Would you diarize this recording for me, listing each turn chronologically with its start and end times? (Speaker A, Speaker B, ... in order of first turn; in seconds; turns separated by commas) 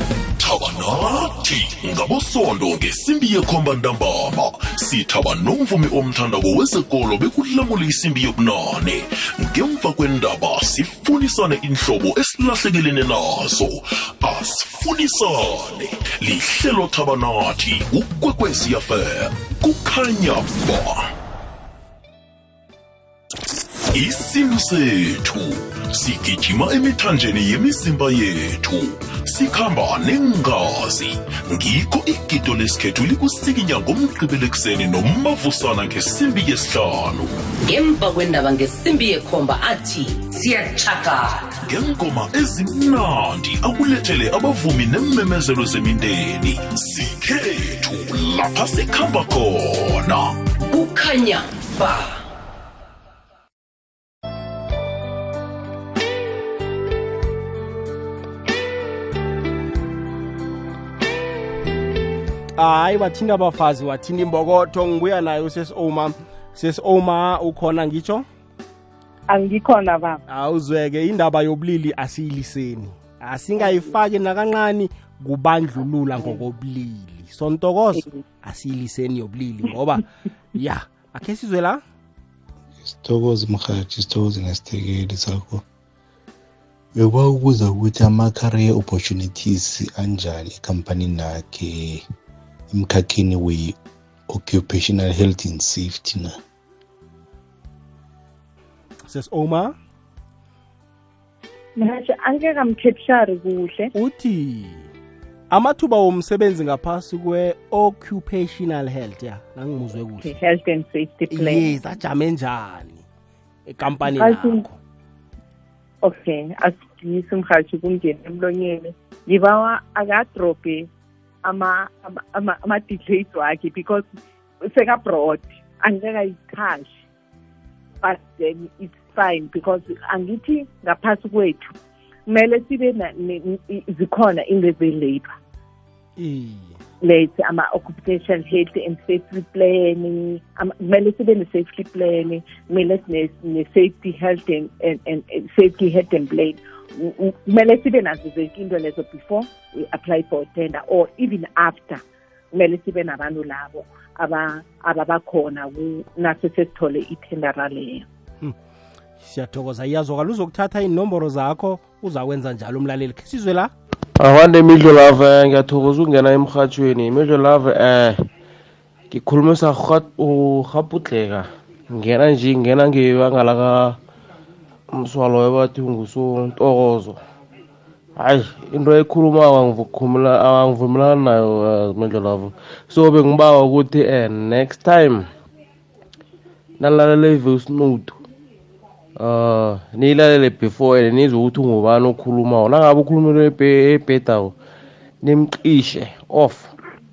Speaker A: 0.4-21.1, Speaker A: 23.9-37.4, Speaker B: 37.6-41.6, Speaker A: 41.6-50.4, Speaker B: 50.7-52.2, Speaker C: 62.5-68.2, Speaker D: 69.3-70.2, Speaker C: 70.3-81.8, Speaker D: 73.6-73.9, Speaker D: 78.0-78.2, Speaker E: 82.8-85.6, Speaker E: 86.9-92.0, Speaker E: 92.7-93.8, Speaker E: 94.3-96.3, Speaker C: 99.1-99.7, Speaker D: 101.8-103.9, Speaker C: 103.9-104.9, Speaker C: 105.5-110.4, Speaker D: 110.2-111.7, Speaker C: 111.3-113.0, Speaker C: 113.7-114.8, Speaker D: 114.1-114.7, Speaker D: 116.0-120.9, Speaker D: 121.4-124.0, Speaker D: 124.6-127.0, Speaker D: 128.0-131.7, Speaker D: 132.3-135.4, Speaker C: 136.2-136.8, Speaker D: 137.0-152.0, Speaker D: 152.5-158.1, Speaker C: 159.2-163.7, Speaker F: 164.2-168.3, Speaker F: 169.1-174.0, Speaker F: 174.9-177.2, Speaker F: 178.2-185.3, Speaker F: 186.8-188.2, Speaker F: 189.2-194.5, Speaker F: 195.2-196.7